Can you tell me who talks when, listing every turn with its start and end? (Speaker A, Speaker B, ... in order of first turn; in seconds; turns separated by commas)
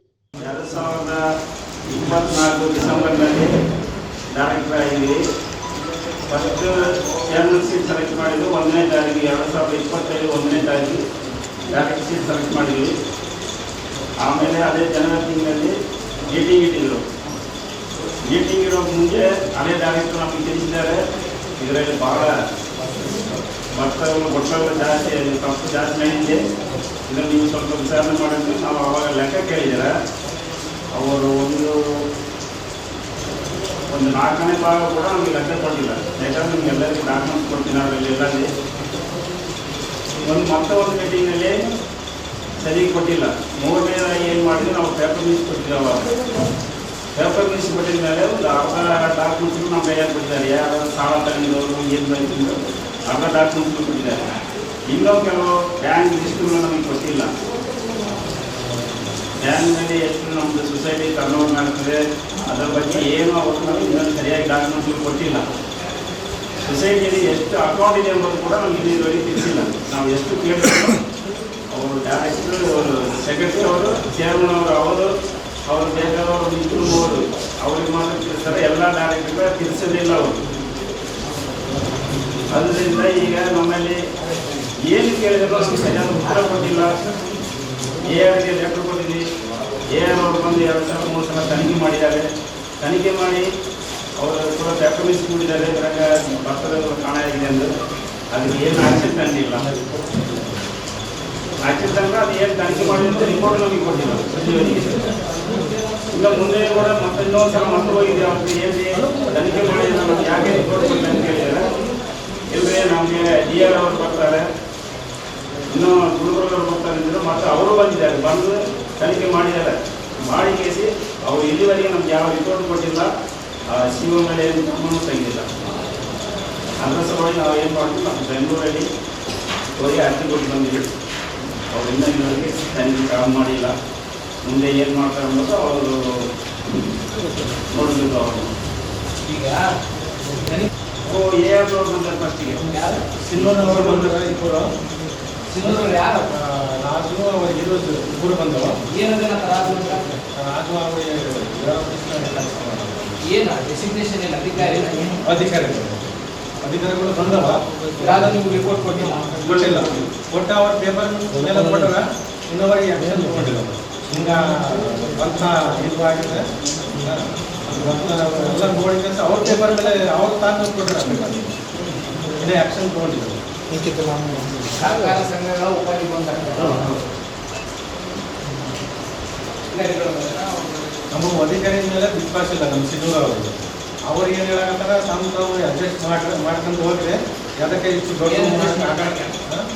Speaker A: 0.4-1.2, Speaker A: 1.9-3.5, Speaker A: 4.3-5.2, Speaker A: 6.3-6.8, Speaker A: 7.3-11.0, Speaker A: 11.7-12.9, Speaker A: 14.2-15.7, Speaker A: 16.3-17.0, Speaker A: 18.3-21.0, Speaker A: 21.6-22.3, Speaker A: 23.8-26.4, Speaker A: 27.1-29.9, Speaker A: 30.9-31.8, Speaker A: 33.9-38.5, Speaker A: 40.2-41.6, Speaker A: 42.6-46.1, Speaker A: 47.1-54.3, Speaker A: 54.9-57.3, Speaker A: 59.4-65.4, Speaker A: 66.6-71.0, Speaker A: 71.7-75.1, Speaker A: 75.7-80.4, Speaker A: 82.5-84.0, Speaker A: 84.8-86.9, Speaker A: 88.0-89.2, Speaker A: 89.9-92.3, Speaker A: 92.8-93.5, Speaker A: 94.2-97.7, Speaker A: 98.3-99.7, Speaker A: 101.6-105.0, Speaker A: 106.1-111.7, Speaker A: 112.5-114.4, Speaker A: 115.7-123.1, Speaker A: 123.7-125.5, Speaker A: 126.8-128.9, Speaker A: 129.8-130.8, Speaker A: 131.7-133.8, Speaker A: 134.4-136.3, Speaker A: 137.7-138.5, Speaker B: 139.3-139.7, Speaker A: 141.1-142.6, Speaker B: 142.7-143.1, Speaker C: 143.2-144.7, Speaker A: 143.3-144.2, Speaker B: 145.5-146.3, Speaker C: 146.3-148.8, Speaker B: 148.9-150.1, Speaker C: 150.3-153.2, Speaker B: 153.3-155.2, Speaker C: 155.2-156.1, Speaker C: 156.6-157.7, Speaker B: 158.0-159.4, Speaker C: 159.4-166.5, Speaker A: 159.5-160.0, Speaker C: 167.0-171.6, Speaker C: 172.4-173.4, Speaker B: 174.8-177.0, Speaker B: 179.7-181.0, Speaker C: 181.1-189.7, Speaker B: 188.3-189.3